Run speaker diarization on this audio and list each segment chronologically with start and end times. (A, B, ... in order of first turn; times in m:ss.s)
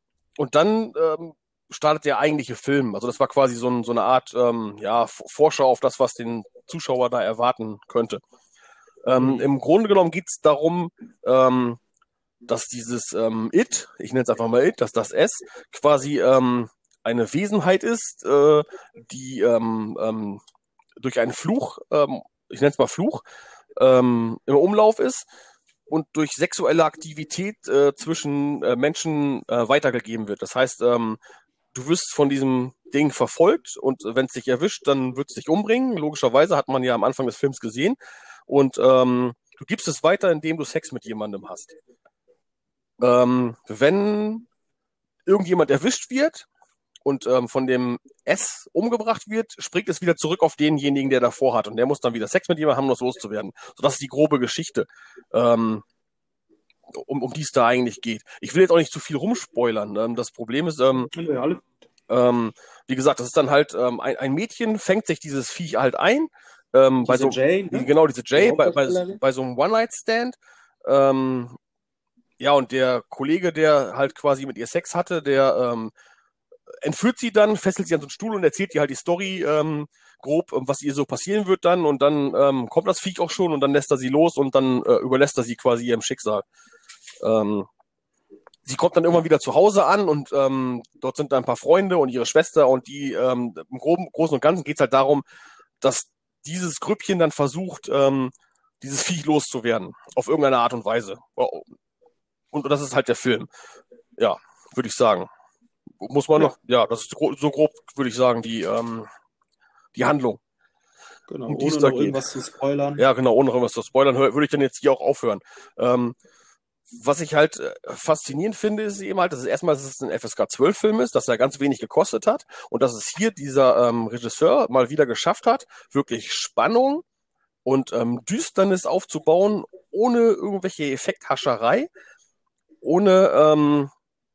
0:00.4-0:08.2 A
0:09.0-0:11.8 A
0:09.2-0:09.4 B
0:12.5-0:20.4 A
0:21.0-0:23.2 A
0:23.8-0:25.3 A
0:25.9-0:31.2 A
0:31.7-0:38.0 A
0:38.5-0:41.8 A
0:43.0-0:44.5 A
0:45.3-0:46.5 A
0:47.0-0:55.8 A
0:56.9-1:01.1 A
1:01.1-1:01.6 B
1:02.1-1:11.6 A
1:07.0-1:09.2 B
1:12.4-1:15.9 A
1:16.8-1:26.4 A
1:27.2-1:27.7 A
1:28.6-1:35.2 A
1:35.8-1:41.7 A
1:42.5-1:43.5 A
1:44.2-1:45.3 A
1:46.0-1:49.1 A
1:49.9-1:50.4 A
1:51.3-1:53.0 B
1:51.5-1:52.3 A
1:53.0-1:56.2 A
1:56.9-2:07.0 A
2:07.6-2:11.9 A
2:12.8-2:13.9 A